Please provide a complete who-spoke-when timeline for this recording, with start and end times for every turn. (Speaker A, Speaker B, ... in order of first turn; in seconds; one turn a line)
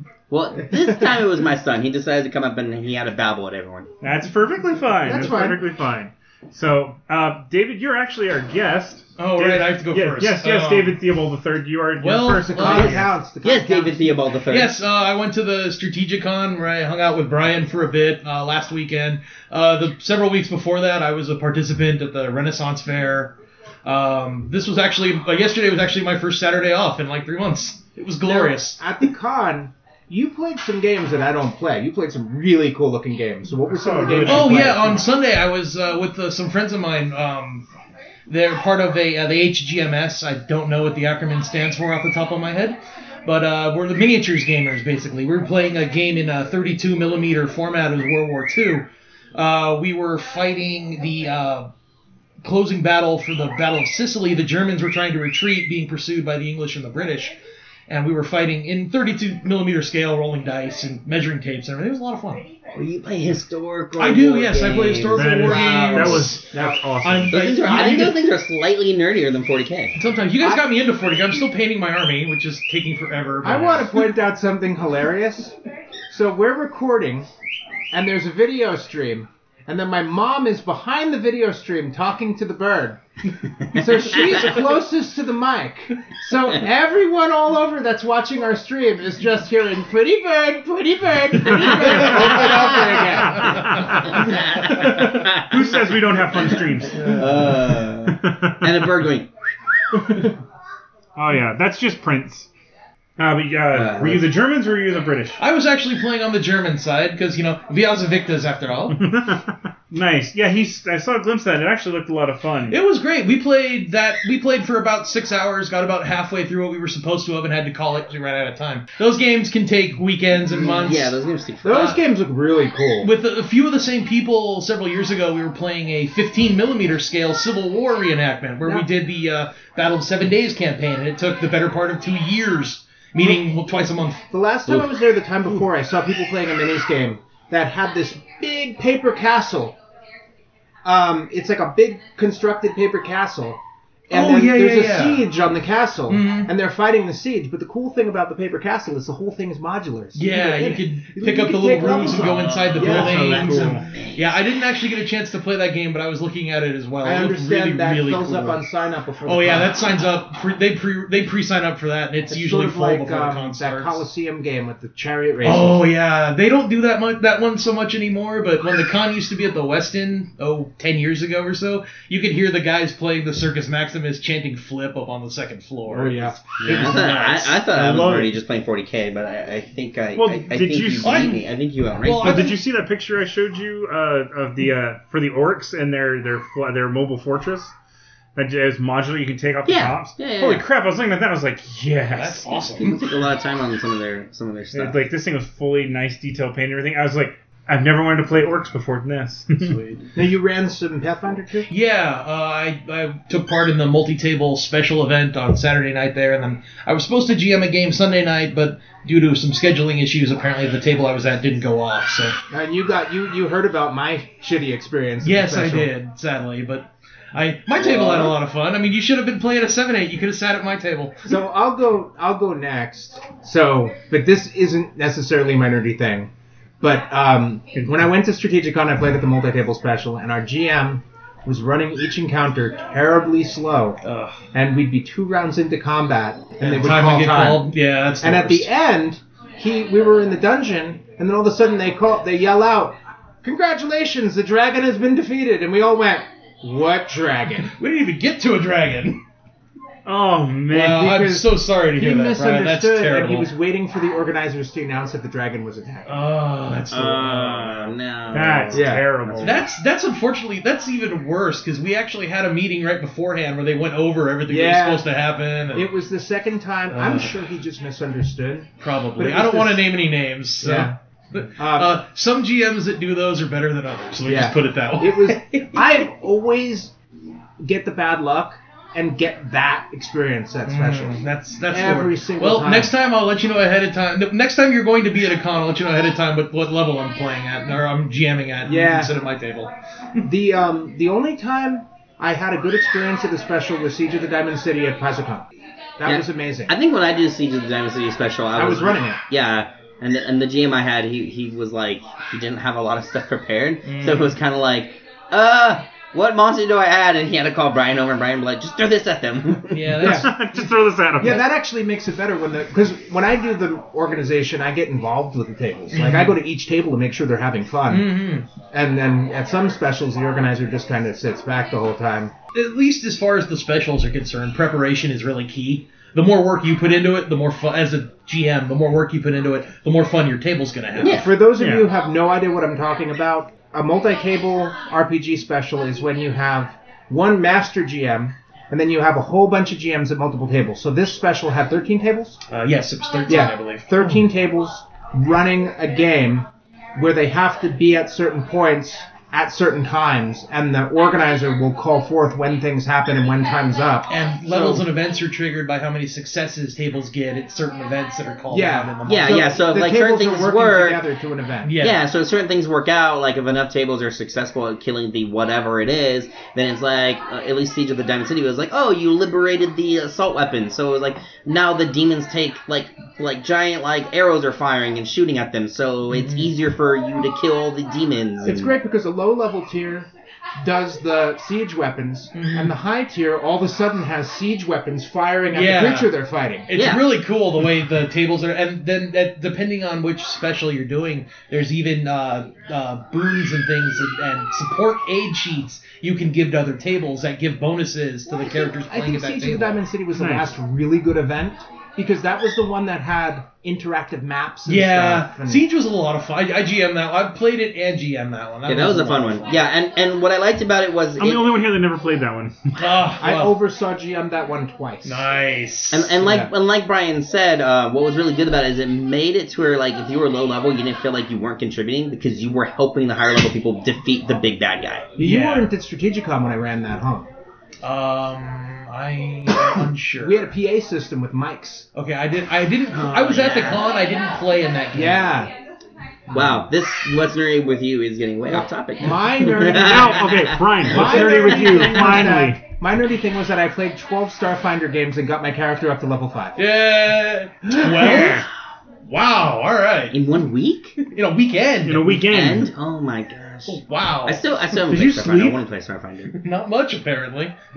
Speaker A: 0.3-3.9
Speaker B: 4.0-13.1
Speaker C: 5.0-5.6
Speaker D: 9.2-11.0
Speaker D: 12.0-13.1
Speaker C: 12.5-14.1
Speaker A: 13.4-14.8
Speaker D: 14.5-23.3
Speaker D: 23.9-28.8
Speaker C: 28.2-35.1
Speaker B: 33.7-35.1
Speaker D: 34.2-37.7
Speaker D: 38.3-51.7
Speaker D: 52.4-57.3
Speaker D: 57.9-62.5
Speaker A: 62.7-66.4
Speaker D: 64.0-68.2
Speaker B: 65.1-67.4
Speaker C: 66.5-66.8
Speaker A: 67.3-70.0
Speaker D: 70.0-74.0
Speaker C: 73.4-75.5
Speaker C: 76.1-77.3
Speaker C: 77.9-83.0
Speaker C: 83.7-93.6
Speaker A: 83.8-84.1
Speaker B: 91.5-92.5
Speaker B: 93.3-98.9
Speaker A: 94.1-99.3
Speaker B: 101.2-102.5
Speaker B: 103.2-105.4
Speaker A: 103.7-104.4
Speaker D: 105.4-109.0
Speaker B: 108.9-112.8
Speaker D: 112.7-121.2
Speaker A: 120.3-122.0
Speaker C: 121.6-123.1
Speaker D: 121.7-122.0
Speaker D: 123.0-134.2
Speaker C: 134.3-139.8
Speaker C: 140.8-143.6
Speaker C: 144.1-153.4
Speaker D: 144.1-145.3
Speaker D: 146.1-146.5
Speaker D: 150.2-158.6
Speaker A: 152.1-154.4
Speaker B: 152.8-153.9
Speaker C: 157.0-159.7
Speaker D: 159.2-164.0
Speaker C: 162.3-165.8
Speaker D: 165.4-177.7
Speaker C: 175.9-176.4
Speaker A: 176.6-182.5
Speaker B: 176.7-177.0
Speaker B: 177.7-178.3
Speaker B: 180.2-181.3
Speaker D: 181.0-181.4
Speaker D: 182.0-182.6
Speaker B: 182.2-187.7
Speaker B: 188.3-192.8
Speaker A: 189.7-190.7
Speaker D: 192.1-193.0
Speaker A: 192.8-195.0
Speaker B: 194.7-199.8
Speaker D: 199.6-200.0
Speaker C: 200.2-201.7
Speaker D: 201.7-212.3
Speaker C: 212.5-215.9
Speaker D: 215.2-221.3
Speaker C: 221.3-226.3
Speaker C: 226.8-234.0
Speaker D: 234.0-234.4
Speaker C: 234.5-237.7
Speaker D: 236.7-238.7
Speaker C: 238.2-247.7
Speaker D: 247.7-249.2
Speaker B: 250.1-251.2
Speaker D: 250.7-253.5
Speaker C: 250.7-256.3
Speaker D: 256.1-258.0
Speaker A: 256.9-259.7
Speaker B: 258.3-259.6
Speaker C: 258.7-259.1
Speaker D: 259.4-265.9
Speaker C: 264.5-265.1
Speaker C: 265.7-269.9
Speaker D: 266.9-267.4
Speaker D: 268.8-275.4
Speaker C: 270.6-270.9
Speaker C: 271.6-272.0
Speaker C: 274.3-276.9
Speaker C: 277.6-282.9
Speaker D: 280.7-289.7
Speaker C: 288.6-289.1
Speaker C: 290.2-295.5
Speaker C: 296.0-296.7
Speaker A: 296.0-310.0
Speaker C: 298.5-299.2
Speaker D: 303.9-304.3
Speaker D: 309.7-310.4
Speaker C: 310.0-310.3
Speaker B: 310.0-311.5
Speaker C: 311.2-318.1
Speaker D: 315.9-316.4
Speaker D: 317.9-318.5
Speaker C: 318.7-322.3
Speaker D: 322.5-331.3
Speaker A: 331.0-331.3
Speaker C: 331.1-342.4
Speaker B: 331.6-331.9
Speaker D: 342.5-344.2
Speaker C: 343.3-354.9
Speaker D: 354.1-359.6
Speaker C: 358.5-361.8
Speaker A: 359.1-361.1
Speaker D: 361.6-362.0
Speaker A: 361.8-378.8
Speaker D: 376.1-376.5
Speaker C: 378.4-380.1
Speaker C: 380.6-386.7
Speaker D: 382.3-382.7
Speaker D: 385.5-386.1
Speaker D: 386.7-399.8
Speaker A: 386.7-387.1
Speaker C: 398.8-405.6
Speaker B: 400.1-400.5
Speaker D: 404.7-409.5
Speaker A: 408.7-411.7
Speaker B: 411.2-413.0
Speaker D: 412.8-413.5
Speaker C: 413.2-415.2
Speaker D: 415.0-416.1
Speaker A: 415.9-425.1
Speaker C: 416.2-416.5
Speaker C: 425.2-427.3
Speaker D: 425.2-425.7
Speaker D: 427.8-430.5
Speaker C: 430.2-431.9
Speaker D: 431.9-435.4
Speaker A: 432.9-434.0
Speaker C: 434.9-435.5
Speaker A: 436.3-440.8
Speaker C: 438.5-440.2
Speaker B: 439.6-442.6
Speaker D: 440.9-442.4
Speaker C: 440.9-446.6
Speaker D: 446.6-448.5
Speaker C: 447.7-448.3
Speaker B: 448.0-448.5
Speaker D: 449.1-450.2
Speaker A: 450.1-451.0
Speaker D: 451.0-452.2
Speaker B: 451.9-452.7
Speaker A: 452.2-456.4
Speaker D: 453.7-455.6
Speaker C: 454.9-455.4
Speaker D: 456.3-457.5